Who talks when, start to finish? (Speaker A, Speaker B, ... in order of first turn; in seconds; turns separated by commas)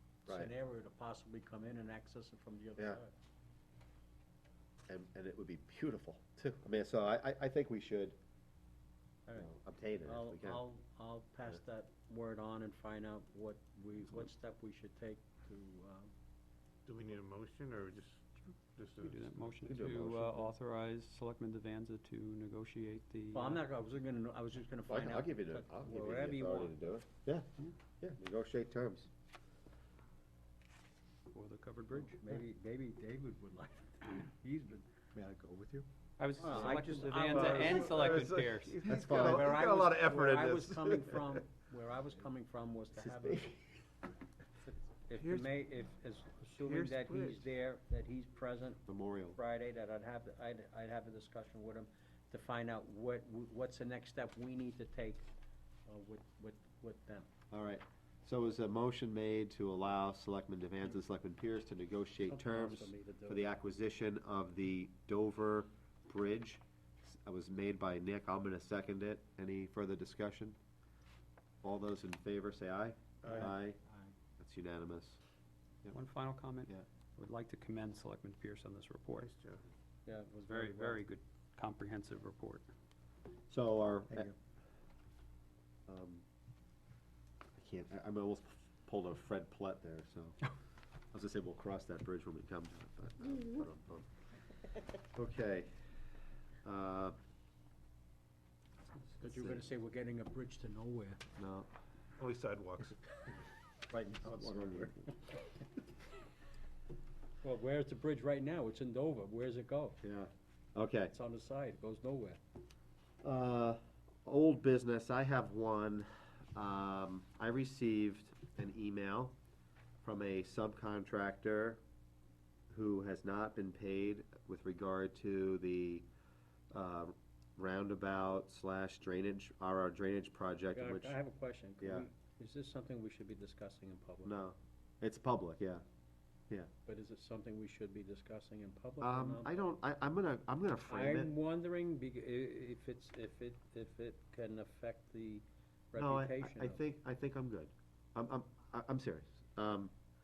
Speaker A: 0.3-3.1, Speaker B: 4.9-8.2, Speaker A: 9.3-9.5, Speaker B: 9.3-10.6, Speaker A: 10.0-16.1, Speaker C: 16.9-19.6, Speaker D: 19.0-23.6, Speaker B: 19.6-20.5, Speaker A: 23.3-26.7, Speaker B: 24.9-27.5, Speaker B: 28.0-29.1, Speaker D: 31.3-32.2, Speaker A: 32.2-34.9, Speaker E: 35.1-35.9, Speaker D: 36.2-38.9, Speaker A: 36.4-38.2, Speaker E: 37.1-40.7, Speaker C: 37.5-38.2, Speaker B: 38.9-39.8, Speaker A: 39.0-43.6, Speaker B: 43.1-43.6, Speaker A: 44.6-55.3, Speaker C: 46.6-47.5, Speaker B: 48.9-49.4, Speaker A: 55.9-57.3, Speaker B: 57.5-70.6, Speaker A: 62.3-63.5, Speaker B: 71.6-73.8, Speaker C: 73.2-73.5, Speaker A: 73.3-74.1, Speaker B: 74.4-75.2, Speaker D: 75.9-79.3, Speaker C: 79.2-79.6, Speaker A: 80.1-81.0, Speaker D: 80.5-82.7, Speaker B: 83.5-84.3, Speaker B: 85.9-86.2, Speaker B: 87.6-90.5, Speaker B: 91.1-94.1, Speaker B: 95.1-95.8, Speaker B: 96.6-97.2, Speaker A: 99.2-101.2, Speaker B: 99.2-99.6, Speaker B: 101.4-101.7, Speaker C: 102.2-103.2, Speaker B: 103.9-105.1, Speaker A: 107.4-110.0, Speaker B: 110.0-111.1, Speaker A: 111.1-112.4, Speaker B: 113.2-119.3, Speaker B: 120.0-121.8, Speaker B: 122.7-126.0, Speaker B: 126.7-131.2, Speaker A: 130.7-134.3, Speaker B: 131.8-132.1, Speaker B: 134.2-135.8, Speaker A: 136.9-139.7, Speaker B: 139.0-141.3, Speaker A: 140.9-146.8, Speaker B: 146.0-149.9